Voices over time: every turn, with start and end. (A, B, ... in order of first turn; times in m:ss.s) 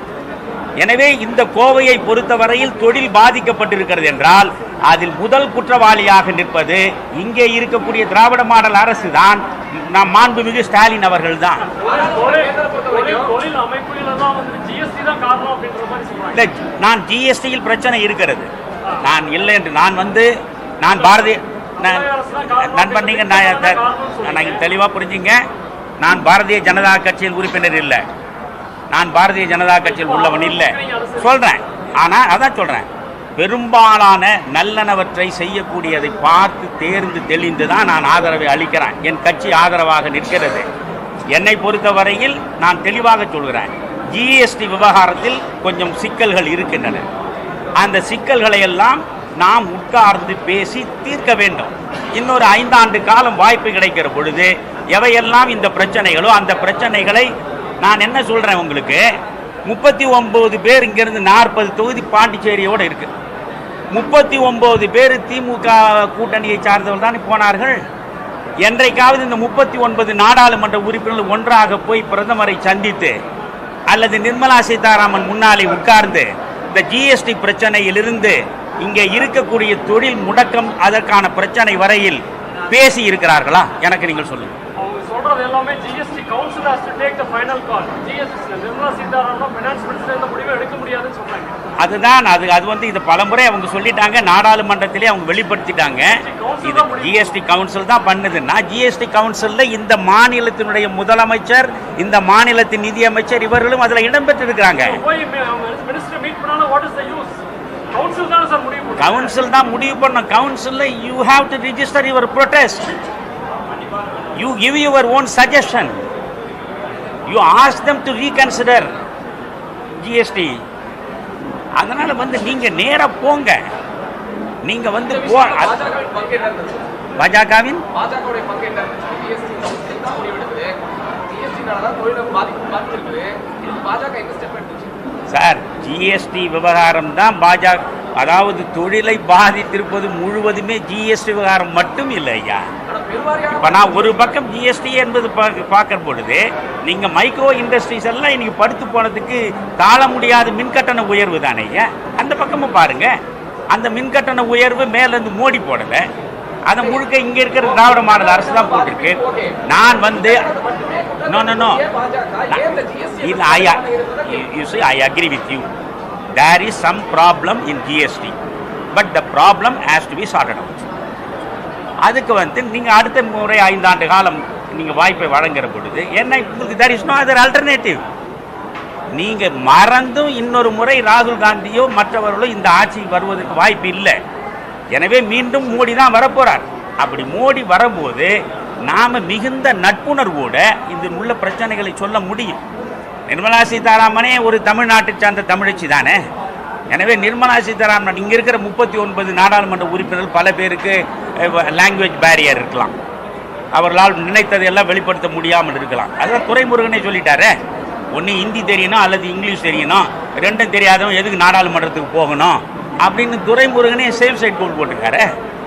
0:00.8-0:11.7 A
0:11.8-0:16.4 B
0:11.8-0:13.3 C
0:16.3-0:18.5 A
0:19.0-0:25.4 A
0:21.8-0:24.6 B
0:26.0-0:28.0 A
0:28.9-0:40.7 A
0:29.9-0:31.3 B
0:41.3-0:47.1 A
0:47.8-0:57.3 A
0:57.8-0:59.0 A
0:59.7-1:03.1 A
1:03.9-1:07.8 A
1:08.6-1:13.2 A
1:13.9-1:24.6 A
1:24.8-1:31.6 B
1:31.8-1:45.0 A
1:36.2-1:37.3 B
1:44.8-1:47.4 B
1:47.9-1:49.4 B
1:49.0-1:53.0 A
1:54.4-1:56.0 A
1:57.3-1:58.9 A
2:00.0-2:00.6 A
2:01.8-2:03.6 A
2:04.7-2:05.8 A
2:05.1-2:06.8 C
2:07.2-2:07.9 A
2:07.9-2:14.9 C
2:15.3-2:22.7 A
2:22.9-2:24.3 C
2:23.5-2:33.1 A
2:33.7-2:36.1 A
2:36.7-2:40.5 A
2:37.6-2:39.6 C
2:40.2-2:44.4 C
2:41.3-2:41.8 A
2:42.5-2:45.7 A
2:46.4-2:48.4 A
2:48.9-2:50.9 A
2:52.0-2:58.0 A
2:59.2-3:04.2 A
3:04.9-3:08.3 A
3:08.9-3:12.6 A
3:13.3-3:16.2 A
3:16.9-3:23.0 A
3:23.7-3:27.5 A
3:28.1-3:35.3 A